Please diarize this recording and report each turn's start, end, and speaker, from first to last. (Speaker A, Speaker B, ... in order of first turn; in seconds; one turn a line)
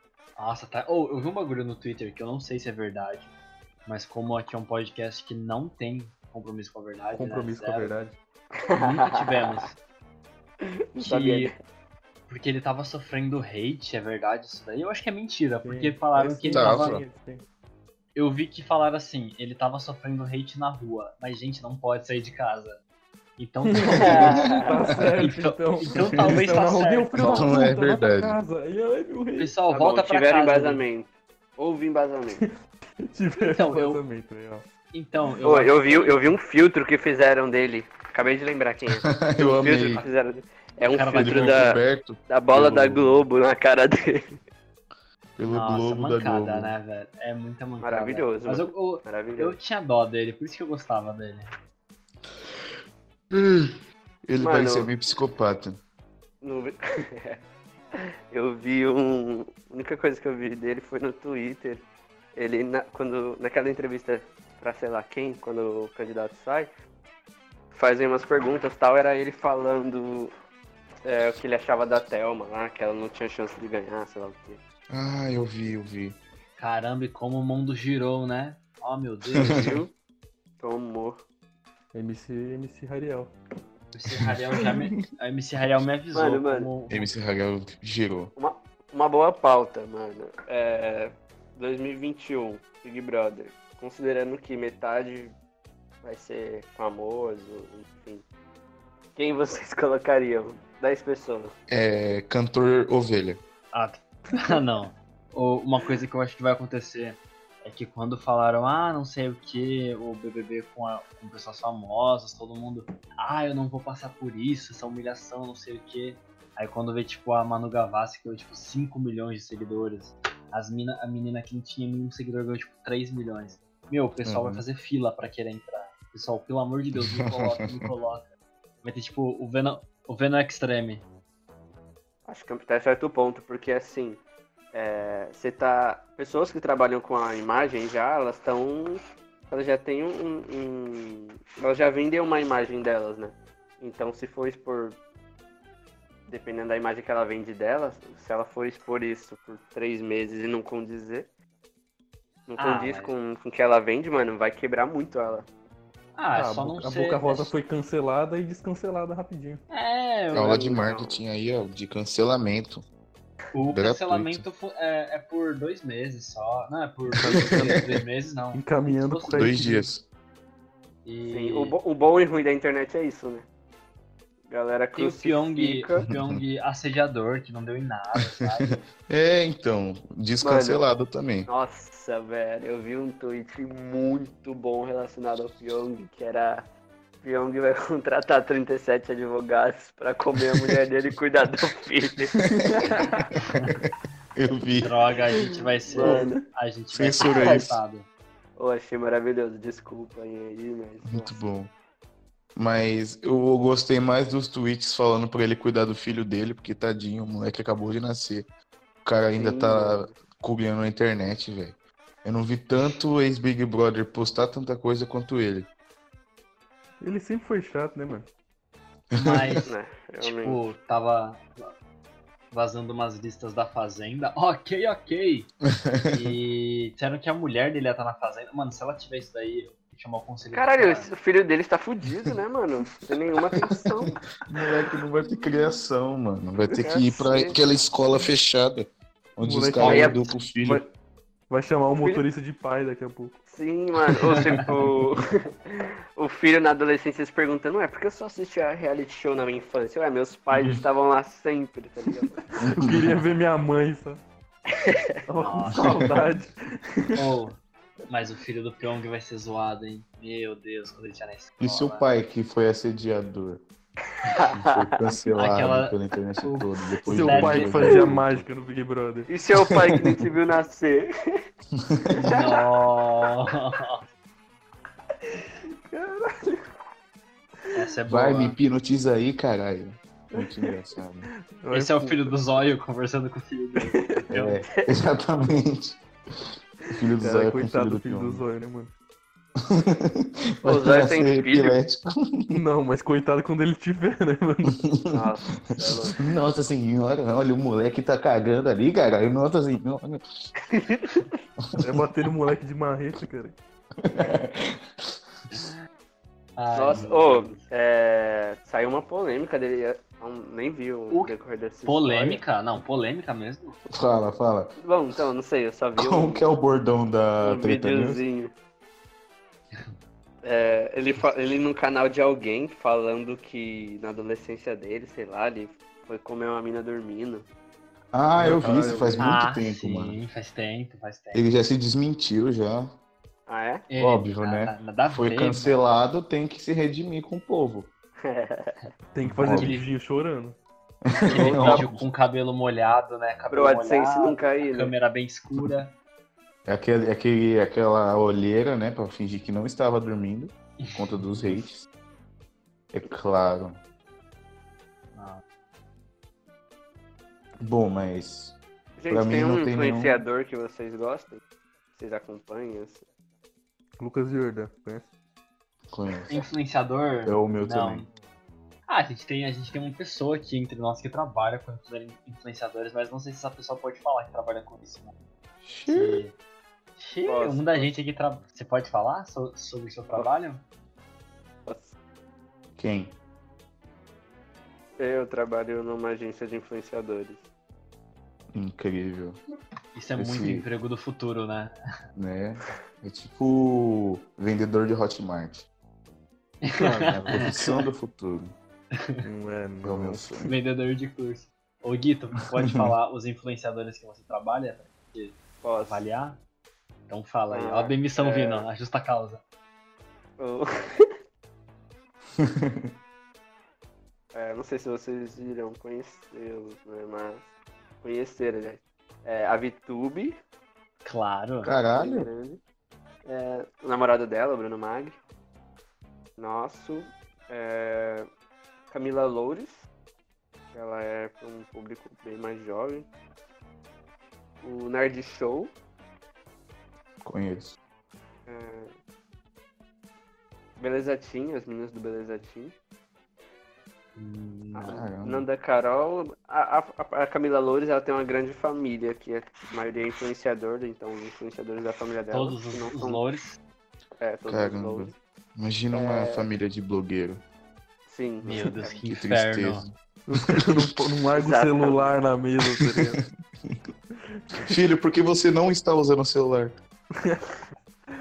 Speaker A: 0.4-3.3
Speaker A: 3.9-7.9
Speaker B: 7.1-8.2
Speaker C: 8.6-9.6
Speaker A: 8.7-9.8
Speaker C: 10.9-11.5
Speaker A: 11.0-11.5
Speaker A: 12.3-17.0
Speaker B: 15.6-17.4
Speaker D: 16.5-17.0
Speaker A: 18.1-22.8
Speaker A: 23.4-24.5
Speaker B: 23.6-29.5
Speaker C: 24.0-24.6
Speaker A: 25.1-27.5
Speaker D: 27.2-28.4
Speaker A: 29.4-30.8
Speaker C: 29.7-32.4
Speaker B: 32.3-34.6
Speaker A: 33.4-34.0
Speaker A: 34.9-36.3
Speaker C: 35.4-44.4
Speaker D: 39.0-40.0
Speaker A: 40.8-41.7
Speaker D: 41.1-43.2
Speaker D: 45.4-46.7
Speaker A: 45.5-51.5
Speaker C: 47.8-49.6
Speaker D: 53.3-53.7
Speaker D: 54.2-55.8
Speaker C: 54.4-54.9
Speaker C: 56.4-57.4
Speaker C: 58.0-66.7
Speaker C: 67.7-70.3
Speaker C: 71.0-74.6
Speaker D: 74.9-76.2
Speaker A: 76.6-79.8
Speaker C: 79.5-79.9
Speaker C: 80.6-81.2
Speaker B: 81.9-83.3
Speaker A: 83.9-87.1
Speaker D: 84.2-85.0
Speaker C: 86.1-86.7
Speaker D: 86.9-88.3
Speaker C: 88.3-95.3
Speaker C: 96.0-98.2
Speaker C: 99.2-101.5
Speaker D: 101.7-103.4
Speaker A: 103.7-128.3
Speaker D: 124.2-124.6
Speaker D: 127.0-127.5
Speaker A: 128.8-131.0
Speaker C: 132.3-134.2
Speaker C: 134.7-145.0
Speaker C: 146.3-151.3
Speaker C: 152.5-155.5
Speaker A: 152.6-153.1
Speaker A: 156.2-157.5
Speaker B: 156.3-159.6
Speaker A: 159.7-160.8
Speaker D: 160.3-162.8
Speaker C: 160.4-161.2
Speaker A: 163.5-169.5
Speaker D: 163.7-164.4
Speaker B: 167.2-167.8
Speaker D: 167.3-167.8
Speaker B: 168.5-169.9
Speaker D: 169.3-170.1
Speaker A: 171.0-171.8
Speaker C: 171.3-173.4
Speaker C: 174.5-176.1
Speaker A: 174.9-178.8
Speaker D: 176.1-176.4
Speaker D: 178.6-181.5
Speaker C: 180.4-180.8
Speaker C: 181.5-186.7
Speaker C: 187.2-192.4
Speaker D: 192.6-192.9
Speaker B: 192.8-193.3
Speaker A: 193.4-193.7
Speaker D: 194.3-194.9
Speaker A: 194.8-198.1
Speaker C: 195.9-196.4
Speaker D: 196.9-197.8
Speaker C: 197.2-197.6
Speaker C: 198.6-201.4
Speaker D: 201.1-201.7
Speaker D: 202.6-208.5
Speaker D: 209.0-215.7
Speaker C: 209.4-210.2
Speaker B: 217.0-218.3
Speaker D: 219.1-219.6
Speaker A: 219.1-221.7
Speaker C: 219.7-220.6
Speaker A: 222.5-225.5
Speaker D: 225.8-226.3
Speaker A: 226.1-231.1
Speaker C: 230.5-234.2
Speaker D: 234.5-240.8
Speaker C: 236.8-237.6
Speaker B: 239.4-240.9
Speaker C: 239.8-240.2
Speaker B: 241.5-243.4
Speaker C: 242.0-242.2
Speaker C: 243.5-252.4
Speaker D: 250.5-250.8
Speaker B: 252.5-254.2
Speaker D: 252.7-253.2
Speaker C: 254.7-255.2
Speaker B: 255.3-257.2
Speaker A: 255.4-256.0
Speaker D: 255.8-256.2
Speaker A: 257.1-257.6
Speaker A: 258.1-262.0
Speaker D: 261.6-263.6
Speaker C: 264.2-264.9
Speaker D: 264.5-268.4
Speaker A: 265.4-268.0
Speaker B: 267.1-269.3
Speaker C: 269.3-271.1
Speaker D: 271.8-272.1
Speaker A: 272.1-274.0
Speaker C: 272.3-272.6
Speaker B: 275.9-276.6
Speaker A: 277.7-278.6
Speaker D: 278.1-281.3
Speaker B: 280.3-280.8
Speaker B: 281.5-282.4
Speaker A: 281.7-284.6
Speaker B: 283.8-284.2
Speaker D: 284.3-286.0
Speaker B: 286.9-288.9
Speaker D: 286.9-288.4
Speaker D: 289.6-292.6
Speaker C: 290.6-291.8
Speaker B: 292.5-294.8
Speaker C: 295.1-296.2
Speaker D: 296.2-300.2
Speaker C: 300.6-301.4
Speaker D: 301.8-302.0
Speaker B: 301.8-303.6
Speaker D: 304.0-305.6
Speaker A: 306.6-307.6
Speaker C: 306.7-312.4
Speaker A: 311.1-313.8
Speaker D: 313.9-314.7
Speaker C: 314.8-316.5
Speaker D: 316.0-318.2
Speaker C: 317.4-318.5
Speaker C: 320.4-327.4
Speaker D: 328.1-330.2
Speaker B: 328.4-329.1
Speaker C: 328.4-329.3
Speaker A: 329.2-331.4
Speaker D: 331.3-333.0
Speaker C: 333.5-333.9
Speaker A: 333.9-335.8
Speaker D: 334.0-337.9
Speaker C: 338.2-338.9
Speaker B: 339.1-340.6
Speaker D: 339.3-339.8
Speaker D: 341.1-342.0
Speaker A: 341.3-345.9
Speaker C: 341.3-341.9
Speaker C: 343.5-344.9
Speaker D: 346.6-351.9
Speaker A: 350.8-351.6
Speaker D: 352.9-353.8
Speaker A: 355.1-355.4
Speaker D: 357.6-358.6
Speaker C: 359.0-361.4
Speaker D: 359.1-360.2
Speaker C: 361.9-363.0
Speaker B: 364.0-365.1
Speaker D: 365.9-366.3
Speaker A: 366.3-368.1
Speaker D: 367.2-368.1
Speaker A: 368.9-375.1
Speaker D: 375.6-376.2
Speaker A: 375.9-376.4
Speaker A: 377.0-380.6
Speaker C: 377.2-377.9
Speaker C: 381.6-381.9
Speaker D: 382.8-383.1
Speaker C: 385.0-387.5
Speaker D: 388.5-389.4
Speaker A: 389.9-391.7
Speaker D: 390.1-390.6
Speaker D: 392.1-395.7
Speaker A: 396.6-397.7
Speaker D: 396.6-398.6
Speaker B: 399.2-400.5
Speaker D: 399.8-400.5
Speaker A: 400.5-406.4
Speaker C: 405.6-406.0
Speaker A: 407.1-409.4
Speaker C: 407.5-408.7
Speaker C: 410.4-411.1
Speaker D: 412.4-412.9
Speaker C: 414.3-417.4
Speaker C: 418.0-420.4
Speaker A: 421.0-421.7
Speaker D: 421.6-422.3
Speaker C: 421.9-422.6
Speaker C: 423.2-425.2
Speaker C: 426.4-428.3
Speaker C: 428.9-429.8
Speaker C: 430.7-433.1
Speaker C: 434.6-435.7
Speaker D: 437.2-437.8
Speaker C: 438.4-438.9
Speaker C: 440.8-442.7
Speaker A: 444.1-445.0
Speaker C: 444.8-453.2
Speaker D: 444.9-445.4
Speaker A: 452.3-453.6
Speaker C: 454.2-455.1
Speaker D: 454.5-457.4
Speaker C: 455.9-456.4
Speaker C: 458.1-459.1
Speaker A: 458.4-459.9
Speaker D: 459.1-459.9
Speaker B: 460.3-463.2
Speaker D: 460.5-461.0
Speaker C: 461.4-462.1
Speaker D: 462.6-463.9
Speaker B: 464.3-464.7
Speaker D: 464.6-466.8
Speaker B: 467.1-467.6